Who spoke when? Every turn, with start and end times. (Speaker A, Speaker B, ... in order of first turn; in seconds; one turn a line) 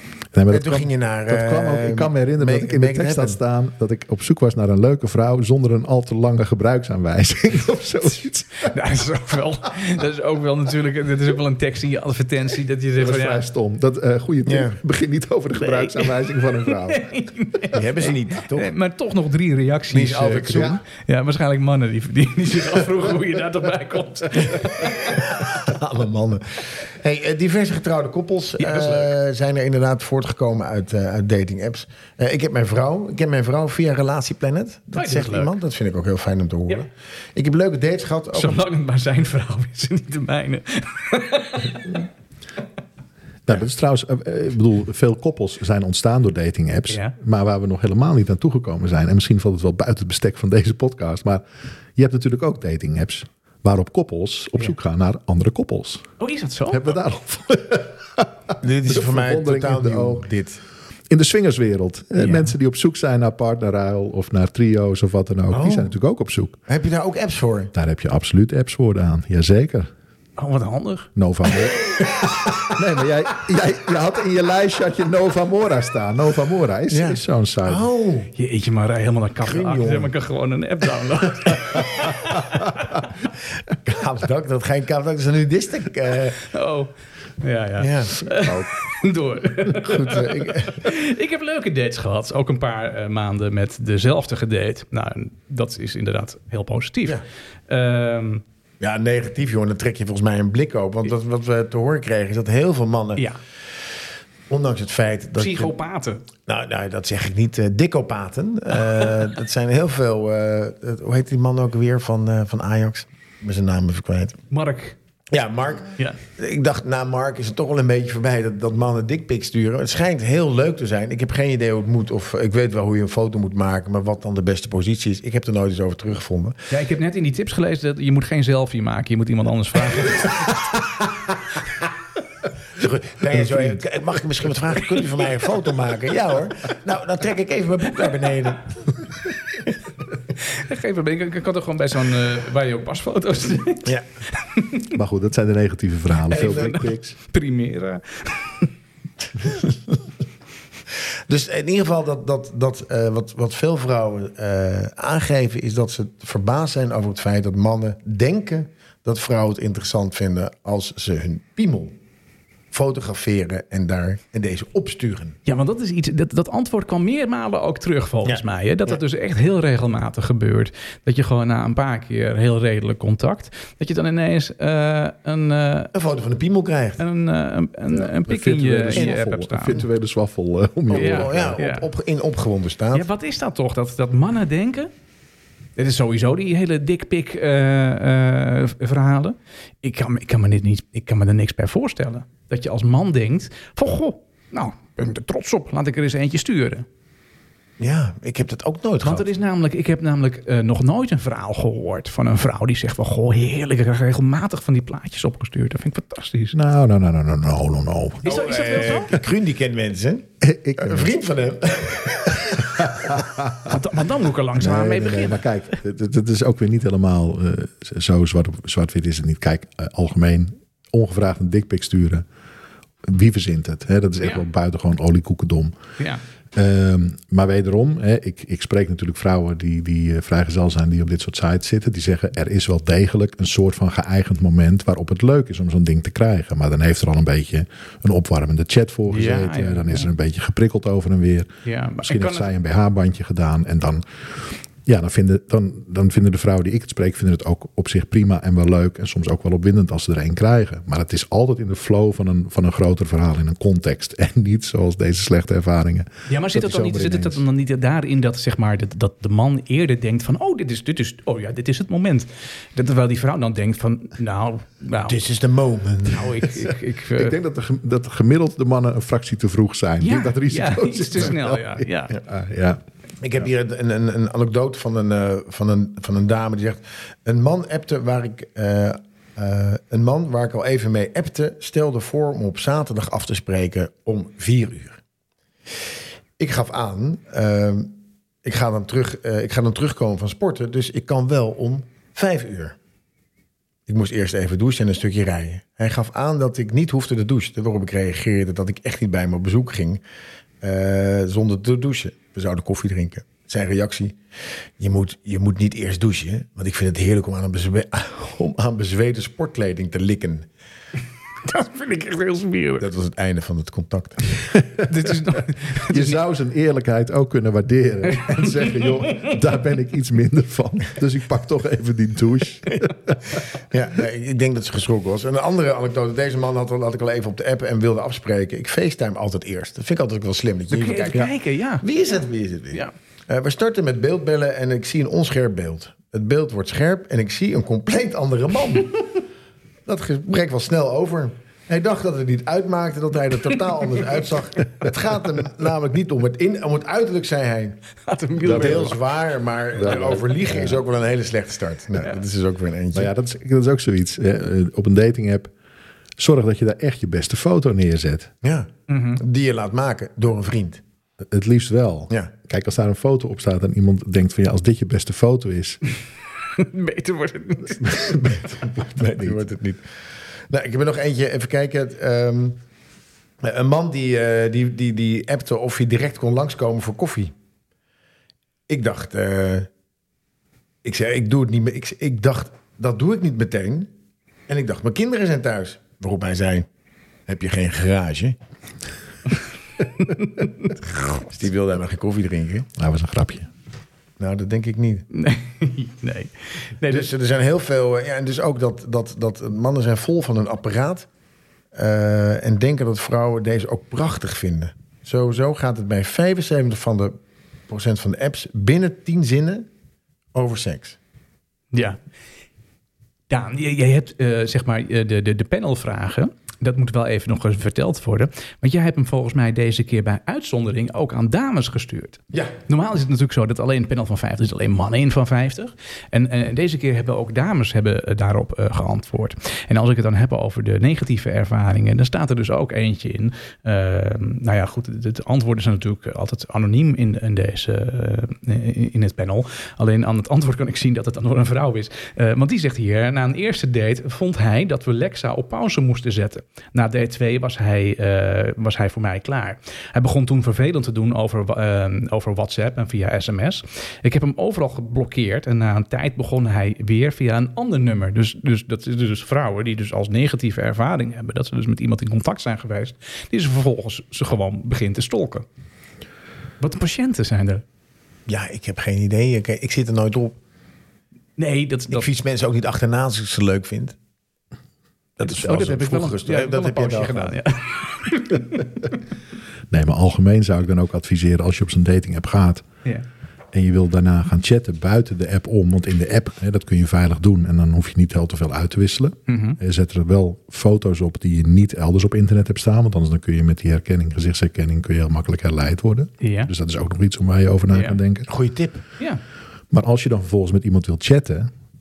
Speaker A: 0.3-8.7
Speaker B: 0.5-3.4
Speaker C: 8.7-13.4
Speaker A: 13.0-17.0
Speaker B: 14.5-14.8
Speaker C: 15.6-25.2
Speaker B: 17.7-18.7
Speaker B: 19.9-20.8
Speaker B: 24.4-38.7
Speaker C: 28.6-29.1
Speaker C: 34.9-35.5
Speaker C: 38.3-42.0
Speaker A: 43.5-51.4
Speaker A: 52.0-56.1
Speaker C: 56.2-56.9
Speaker A: 56.7-60.3
Speaker B: 58.6-60.6
Speaker A: 61.1-66.6
Speaker C: 62.2-62.5
Speaker B: 65.5-65.9
Speaker B: 66.7-67.7
Speaker A: 67.7-69.9
Speaker C: 70.4-71.1
Speaker A: 71.2-77.9
Speaker B: 72.2-72.6
Speaker B: 76.9-78.3
Speaker C: 78.4-82.7
Speaker B: 79.4-80.1
Speaker B: 83.8-86.4
Speaker C: 86.5-98.4
Speaker B: 87.8-88.3
Speaker B: 89.9-90.8
Speaker B: 98.8-103.2
Speaker B: 104.5-105.7
Speaker C: 105.4-106.2
Speaker B: 106.5-114.4
Speaker C: 114.5-115.0
Speaker B: 115.3-126.6
Speaker C: 126.7-130.7
Speaker B: 132.8-138.8
Speaker C: 140.4-144.9
Speaker A: 144.9-147.2
Speaker C: 146.3-148.7
Speaker B: 146.3-146.8
Speaker B: 149.4-150.0
Speaker B: 151.3-162.0
Speaker B: 162.7-165.4
Speaker C: 165.5-175.9
Speaker B: 175.9-177.0
Speaker C: 177.0-179.8
Speaker A: 178.1-181.6
Speaker B: 180.9-183.1
Speaker C: 180.9-181.9
Speaker C: 182.9-184.9
Speaker C: 185.8-196.8
Speaker B: 197.8-199.3
Speaker C: 199.0-206.6
Speaker A: 206.5-208.3
Speaker C: 208.2-209.2
Speaker B: 208.2-212.9
Speaker A: 210.4-211.1
Speaker A: 212.5-213.8
Speaker C: 213.6-215.5
Speaker A: 214.6-222.3
Speaker A: 223.1-225.8
Speaker A: 226.5-241.5
Speaker C: 239.1-240.1
Speaker C: 241.7-242.5
Speaker A: 242.0-244.0
Speaker A: 244.8-257.4
Speaker C: 256.3-265.2
Speaker B: 265.1-266.4
Speaker C: 266.1-267.4
Speaker A: 266.7-272.8
Speaker C: 270.0-272.1
Speaker B: 273.2-285.0
Speaker B: 286.4-292.8
Speaker B: 293.9-300.0
Speaker B: 300.6-304.2
Speaker B: 304.8-310.5
Speaker C: 311.4-312.9
Speaker B: 312.8-314.2
Speaker A: 314.5-323.3
Speaker C: 314.9-316.2
Speaker C: 318.1-319.3
Speaker B: 323.7-339.2
Speaker C: 330.7-331.9
Speaker B: 339.9-347.8
Speaker C: 348.1-349.0
Speaker B: 348.4-353.1
Speaker A: 348.4-349.0
Speaker A: 349.7-350.8
Speaker A: 352.9-355.5
Speaker A: 356.2-358.3
Speaker B: 358.4-360.8
Speaker C: 358.9-359.2
Speaker A: 361.3-365.8
Speaker C: 366.5-368.2
Speaker A: 367.8-369.4
Speaker B: 368.8-369.8
Speaker B: 370.5-372.6
Speaker B: 373.4-377.3
Speaker B: 378.7-379.7
Speaker B: 380.8-383.9
Speaker B: 384.5-386.7
Speaker B: 387.3-388.4
Speaker C: 390.0-390.7
Speaker B: 391.3-392.7
Speaker A: 392.8-393.5
Speaker B: 394.2-395.1
Speaker C: 395.1-397.1
Speaker B: 396.9-401.1
Speaker B: 401.7-407.2
Speaker B: 407.7-409.7
Speaker B: 410.3-411.0
Speaker C: 411.7-412.0
Speaker C: 413.3-465.4
Speaker C: 466.6-467.6
Speaker B: 468.3-470.4
Speaker C: 471.4-472.1
Speaker B: 471.9-474.0
Speaker B: 475.2-477.4
Speaker C: 475.2-478.9
Speaker A: 479.7-482.6
Speaker A: 483.5-498.3
Speaker C: 489.3-489.6
Speaker C: 496.2-496.5
Speaker C: 497.7-498.0
Speaker B: 498.3-498.8
Speaker A: 499.7-501.5